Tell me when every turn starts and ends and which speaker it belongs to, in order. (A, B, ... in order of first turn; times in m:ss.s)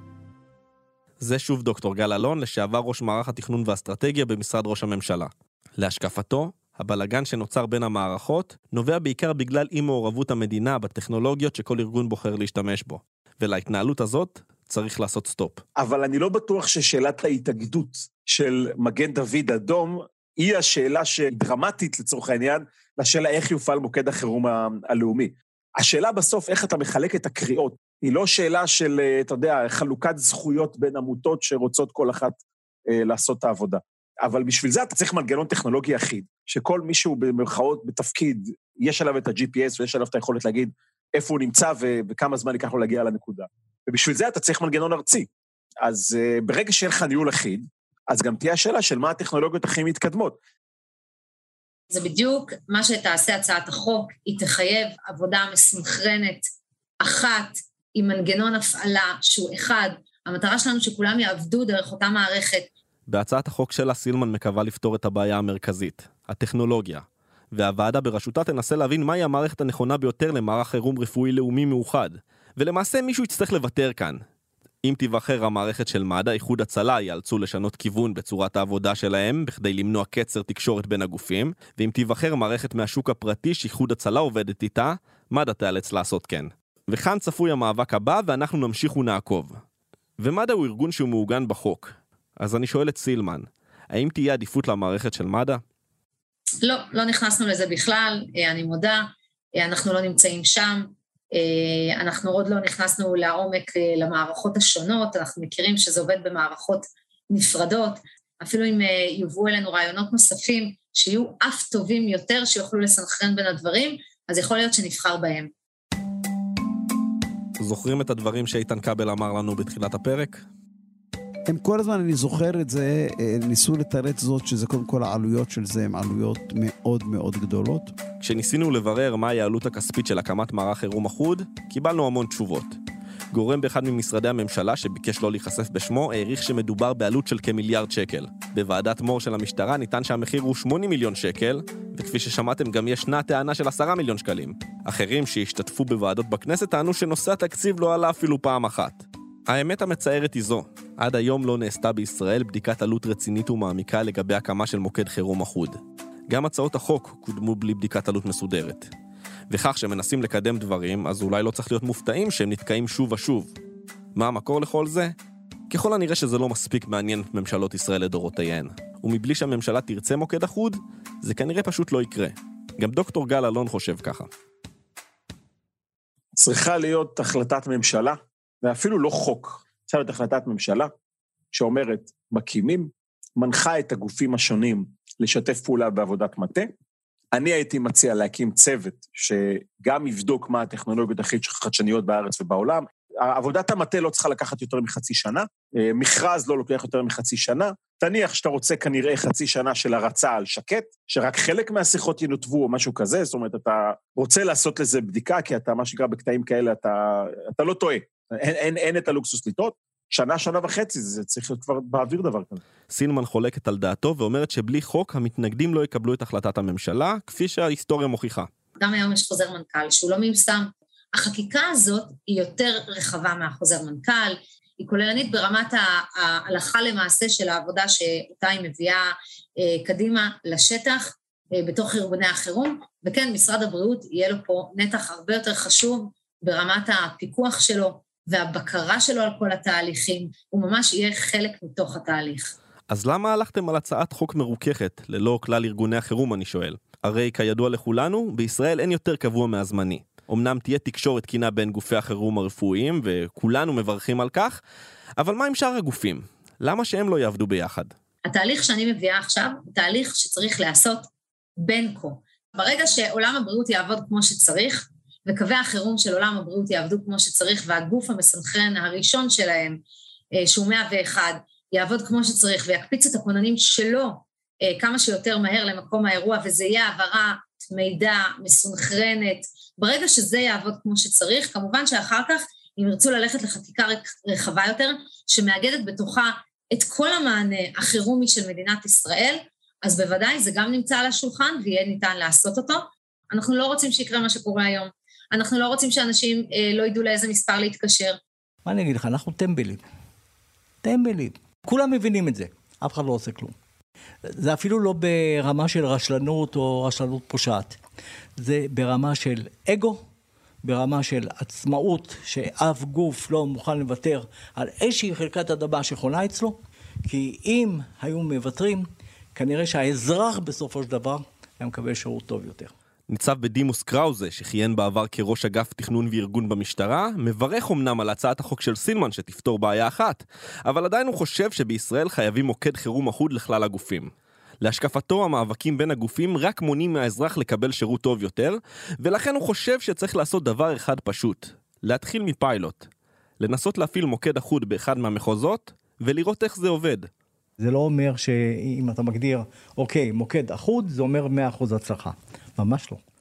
0:01.2-0:15.6 A
0:15.8-0:32.4 B
0:32.9-0:45.3 B
0:45.8-0:50.4 B
0:51.9-0:56.4 C
0:57.0-1:02.7 C
1:03.1-1:14.2 A
1:14.8-1:29.6 A
1:30.2-1:35.6 A
1:36.6-1:55.5 C
1:57.6-2:00.4 A
2:01.5-2:07.9 D
2:08.2-2:12.8 A
2:13.3-2:38.9 A
2:39.5-2:43.5 A
2:44.2-2:45.1 A
2:45.7-2:54.3 A
2:56.4-3:00.9 B
3:01.5-3:06.7 B
3:07.3-3:32.6 B
3:32.9-3:38.5 A
3:38.8-4:02.5 C
4:02.9-4:14.6 A
4:15.2-4:17.9 A
4:18.2-4:21.1 C
4:21.6-4:29.8 C
4:30.4-4:58.2 C
4:58.7-4:59.8 E
5:00.8-5:03.6 E
5:04.3-5:07.8 E
5:08.4-5:10.0 E
5:10.6-5:16.6 E
5:17.1-5:22.7 E
5:23.1-5:42.9 A
5:43.4-5:47.1 A
5:47.6-5:53.0 E